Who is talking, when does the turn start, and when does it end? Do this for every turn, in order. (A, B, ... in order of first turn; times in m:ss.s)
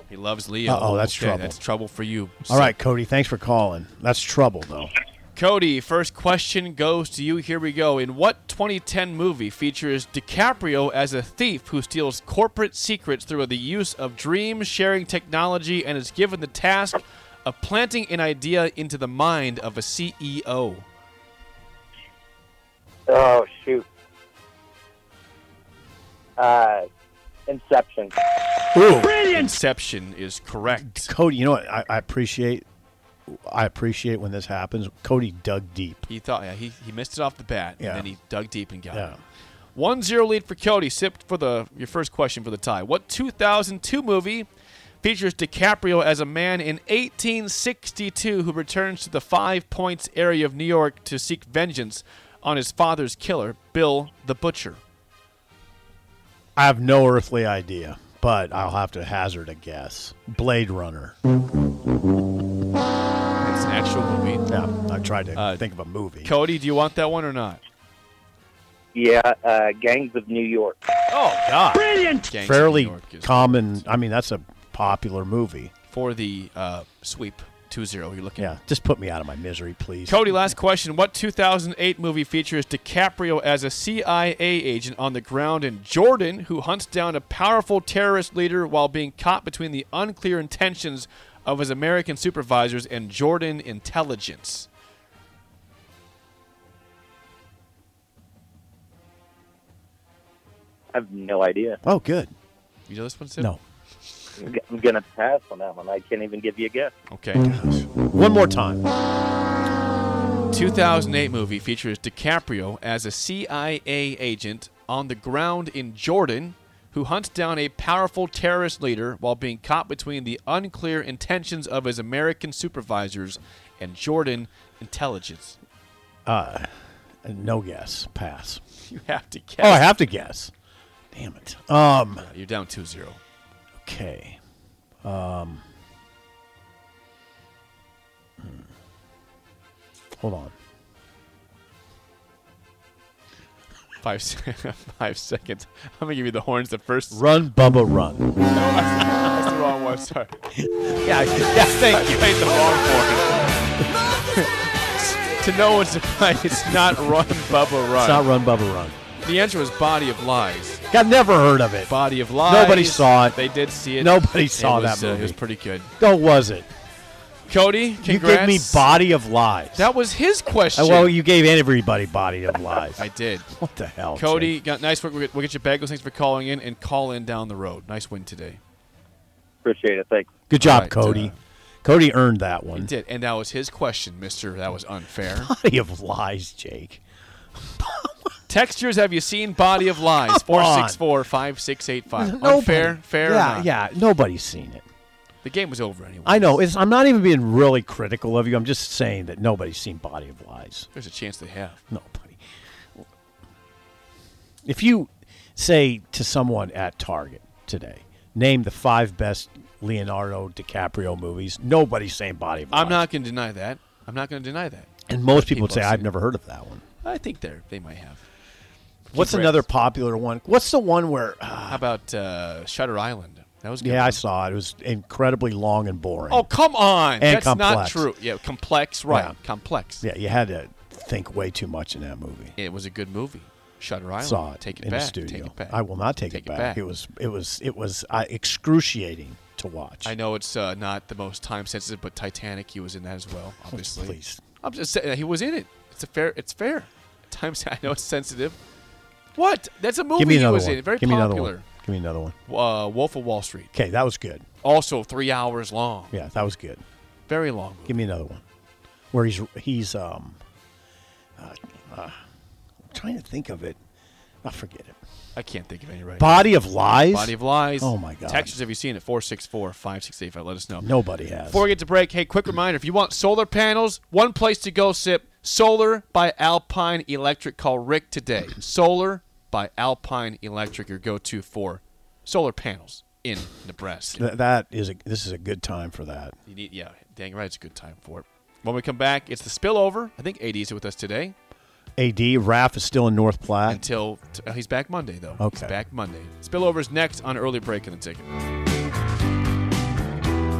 0:00.1-0:02.7 A
0:00.6-0:01.6 B
0:02.5-0:04.9 B
0:05.3-0:20.8 A
0:23.1-0:23.8 C
0:26.4-0:26.8 C
0:27.5-0:28.1 C
0:28.7-0:29.5 B
0:28.9-0:31.1 A
0:30.8-0:32.6 B
0:33.3-0:36.0 B
0:36.1-0:39.2 A
0:37.8-0:38.1 B
0:38.9-0:39.2 B
0:39.7-0:44.5 A
0:45.0-0:54.8 A
0:56.6-1:01.2 B
1:03.4-1:04.5 A
1:04.5-1:06.3 B
1:05.3-1:05.6 A
1:06.2-1:07.6 A
1:08.9-1:10.8 C
1:11.1-1:13.8 A
1:12.3-1:15.7 B
1:15.9-1:18.5 A
1:18.4-1:20.5 B
1:20.1-1:34.7 A
1:40.9-1:41.8 C
1:41.8-1:42.3 B
1:42.9-1:43.5 A
1:44.4-1:46.9 C
1:47.1-1:47.5 A
1:47.4-1:48.8 B
1:50.5-2:05.6 A
2:06.2-2:06.7 B
2:07.2-2:08.6 B
2:08.8-2:09.9 A
2:09.6-2:10.5 B
2:11.1-2:12.2 B
2:12.2-2:13.2 A
2:13.8-2:14.4 B
2:15.0-2:15.6 B
2:20.1-2:20.5 B
2:24.0-2:27.2 A
2:27.1-2:28.4 B
2:28.5-2:30.3 A
2:30.6-2:32.4 B
2:31.6-2:38.3 A
2:36.8-2:37.2 B
2:37.9-2:39.0 B
2:39.2-2:40.8 A
2:40.9-2:43.4 B
2:41.8-2:45.9 A
2:44.0-2:45.4 B
2:46.0-2:46.7 B
2:47.5-2:48.8 A
2:48.0-2:49.9 B
2:49.7-2:51.1 A
2:50.7-2:54.5 B
2:53.0-2:53.5 A
2:54.1-2:58.6 A
2:59.6-3:00.3 C
3:00.5-3:02.9 B
3:00.6-3:01.3 A
3:02.7-3:05.5 A
3:05.3-3:07.0 B
3:07.8-3:08.1 B
3:08.5-3:13.7 A
3:10.1-3:11.0 B
3:12.1-3:14.8 B
3:15.4-3:16.6 A
3:16.2-3:20.9 B
3:20.9-3:21.8 A
3:21.9-3:22.4 B
3:24.6-3:33.0 B
3:32.7-3:36.1 A
3:35.1-3:36.8 B
3:37.0-3:38.2 A
3:39.1-3:39.7 A
3:39.1-3:41.8 B
3:41.7-3:44.2 A
3:43.8-3:46.5 B
3:46.3-3:50.0 A
3:47.2-3:48.1 B
3:49.1-3:49.4 B
3:50.0-3:52.6 B
3:52.6-3:56.8 A
3:54.2-4:00.1 B
4:00.0-4:08.6 A
4:03.7-4:04.4 B
4:09.4-4:11.6 A
4:10.2-4:12.3 B
4:12.5-4:13.7 A
4:13.7-4:14.4 B
4:14.6-4:16.1 A
4:16.1-4:16.8 B
4:17.3-4:18.0 A
4:17.8-4:18.4 B
4:19.1-4:20.4 B
4:21.4-4:22.2 B
4:22.9-4:23.8 B
4:24.4-4:25.0 B
4:25.3-4:26.5 A
4:26.2-4:28.5 B
4:27.1-4:30.9 A
4:30.8-4:31.6 B
4:31.4-4:44.2 A
4:44.1-4:46.3 B
4:46.4-4:51.3 A
4:52.0-4:53.8 B
4:53.7-4:58.3 A
4:55.4-4:55.8 B